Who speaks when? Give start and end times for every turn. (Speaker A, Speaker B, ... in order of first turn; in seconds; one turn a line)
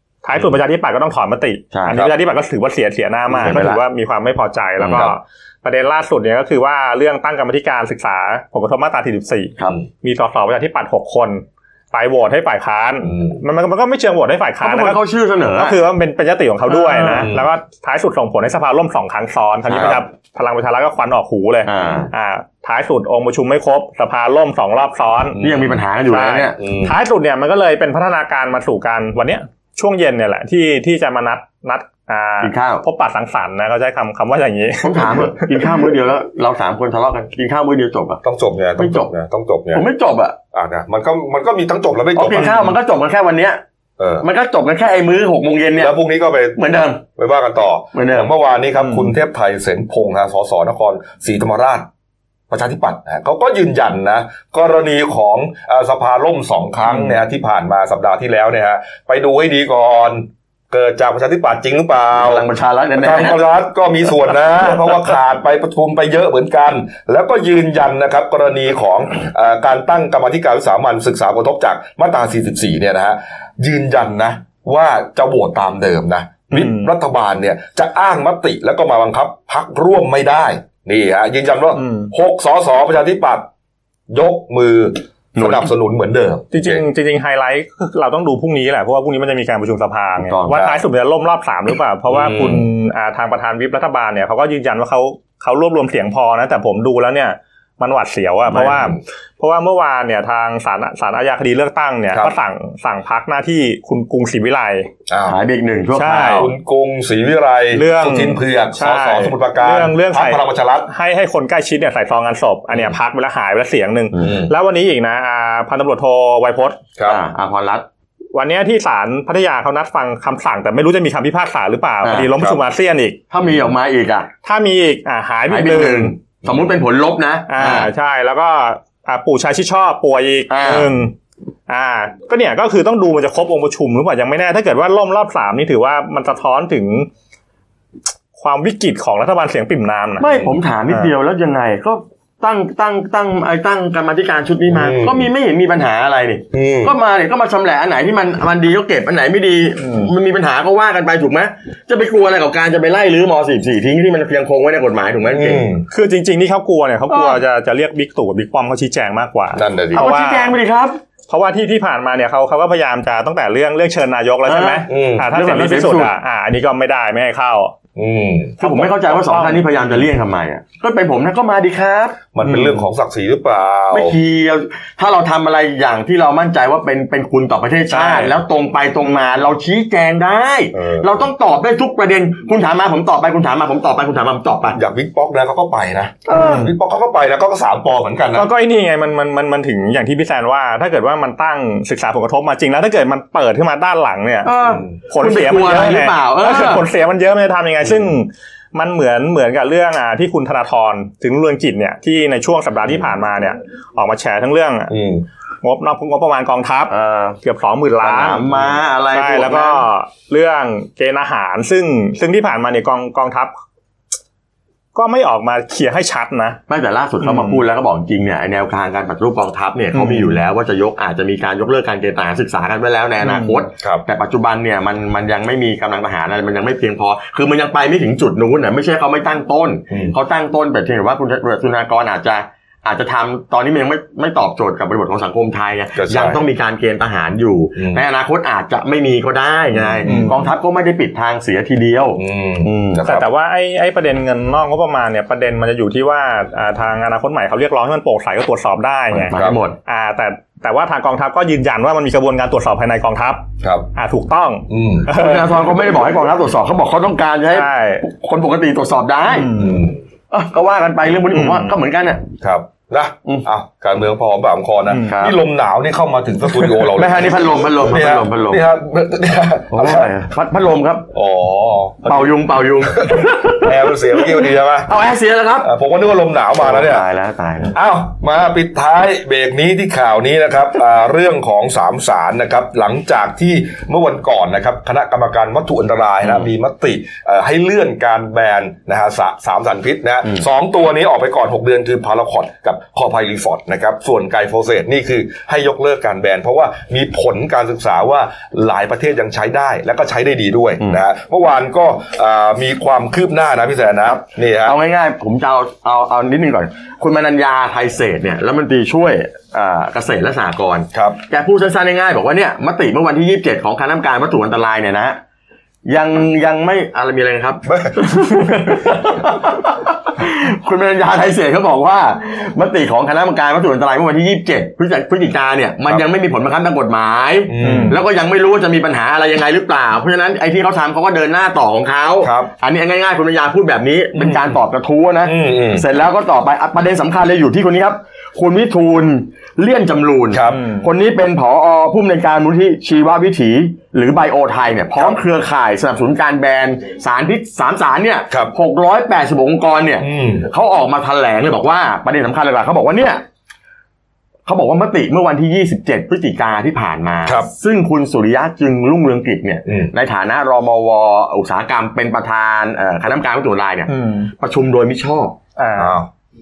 Speaker A: 0.2-15.0
Speaker B: 1.7-2.1
Speaker B: 3.3-3.8
Speaker B: 4.8-5.1
Speaker C: 13.1-13.4
Speaker B: 14.6-15.8
Speaker A: 15.5-25.4
Speaker B: 16.7-17.3
Speaker B: 19.7-20.0
Speaker B: 21.7-22.1
Speaker C: 25.4-25.8
Speaker B: 25.4-26.6
Speaker A: 26.1-35.7
Speaker C: 26.6-26.9
Speaker B: 32.4-32.8
Speaker B: 34.8-38.2
Speaker C: 38.2-39.9
Speaker B: 38.8-39.1
Speaker B: 39.7-40.4
Speaker C: 40.5-42.6
Speaker B: 42.2-43.6
Speaker C: 44.0-44.3
Speaker B: 44.2-45.9
Speaker C: 45.8-51.9
Speaker B: 46.6-47.0
Speaker B: 47.9-48.3
Speaker A: 48.8-49.1
Speaker C: 52.5-62.5
Speaker B: 62.1-63.4
Speaker C: 63.0-83.5
Speaker A: 76.5-76.9
Speaker A: 81.8-82.1
Speaker C: 84.1-86.8
Speaker B: 85.4-85.7
Speaker A: 86.5-104.9
Speaker B: 90.2-90.7
Speaker C: 92.1-92.7
Speaker C: 98.5-99.0
Speaker C: 105.1-105.4
Speaker B: 105.3-106.5
Speaker A: 105.9-106.5
Speaker C: 106.4-110.9
Speaker A: 107.7-116.8
Speaker C: 114.2-114.5
Speaker B: 117.1-117.8
Speaker A: 118.3-123.2
Speaker B: 122.0-122.3
Speaker B: 123.3-124.3
Speaker A: 124.5-126.1
Speaker B: 125.5-127.9
Speaker A: 127.5-131.1
Speaker B: 130.5-130.9
Speaker A: 131.7-137.1
Speaker A: 138.4-140.3
Speaker B: 140.2-155.7
Speaker C: 144.7-145.3
Speaker C: 146.5-146.9
Speaker C: 155.3-155.9
Speaker A: 155.9-160.6
Speaker B: 157.1-157.4
Speaker C: 159.5-160.0
Speaker B: 159.9-161.0
Speaker A: 161.3-167.7
Speaker B: 164.5-166.1
Speaker C: 164.9-165.3
Speaker C: 168.0-168.6
Speaker A: 168.6-169.7
Speaker B: 168.6-172.8
Speaker C: 172.3-174.2
Speaker B: 173.9-184.8
Speaker A: 177.9-178.3
Speaker C: 180.7-181.2
Speaker C: 184.7-188.5
Speaker B: 186.3-186.7
Speaker A: 188.3-194.6
Speaker B: 194.4-196.9
Speaker A: 195.1-204.9
Speaker C: 204.9-205.2
Speaker A: 205.6-208.5
Speaker B: 206.9-207.4
Speaker B: 208.0-209.8
Speaker A: 209.1-213.5
Speaker A: 214.9-216.6
Speaker B: 216.7-243.0
Speaker A: 217.2-217.6
Speaker A: 219.9-220.3
Speaker A: 223.2-223.6
Speaker C: 235.9-236.4
Speaker C: 237.8-238.0
Speaker C: 239.8-240.3
Speaker A: 240.1-240.4
Speaker C: 242.2-243.3
Speaker A: 243.1-255.6
Speaker C: 249.2-249.6
Speaker B: 249.3-249.8
Speaker C: 253.6-253.9
Speaker C: 254.7-255.1
Speaker B: 255.1-259.6
Speaker A: 257.5-258.1
Speaker A: 259.3-259.8
Speaker C: 259.6-260.0
Speaker B: 260.3-262.2
Speaker A: 261.3-261.8
Speaker C: 262.4-270.1
Speaker A: 264.9-265.2
Speaker B: 265.1-265.4
Speaker B: 266.7-268.6
Speaker B: 269.7-271.1
Speaker C: 271.1-274.9
Speaker B: 272.1-275.7
Speaker C: 275.6-277.1
Speaker B: 276.6-277.7
Speaker C: 277.7-304.8
Speaker B: 304.6-315.2
Speaker B: 315.9-353.2
Speaker C: 317.7-318.9
Speaker C: 327.5-328.0
Speaker A: 327.6-328.0
Speaker C: 332.2-332.5
Speaker C: 334.2-334.5
Speaker C: 335.2-335.9
Speaker C: 340.3-340.7
Speaker C: 350.0-350.5
Speaker B: 354.5-365.4
Speaker C: 357.2-357.5
Speaker C: 359.7-359.9
Speaker A: 363.9-364.3
Speaker A: 365.6-365.9
Speaker C: 365.8-366.1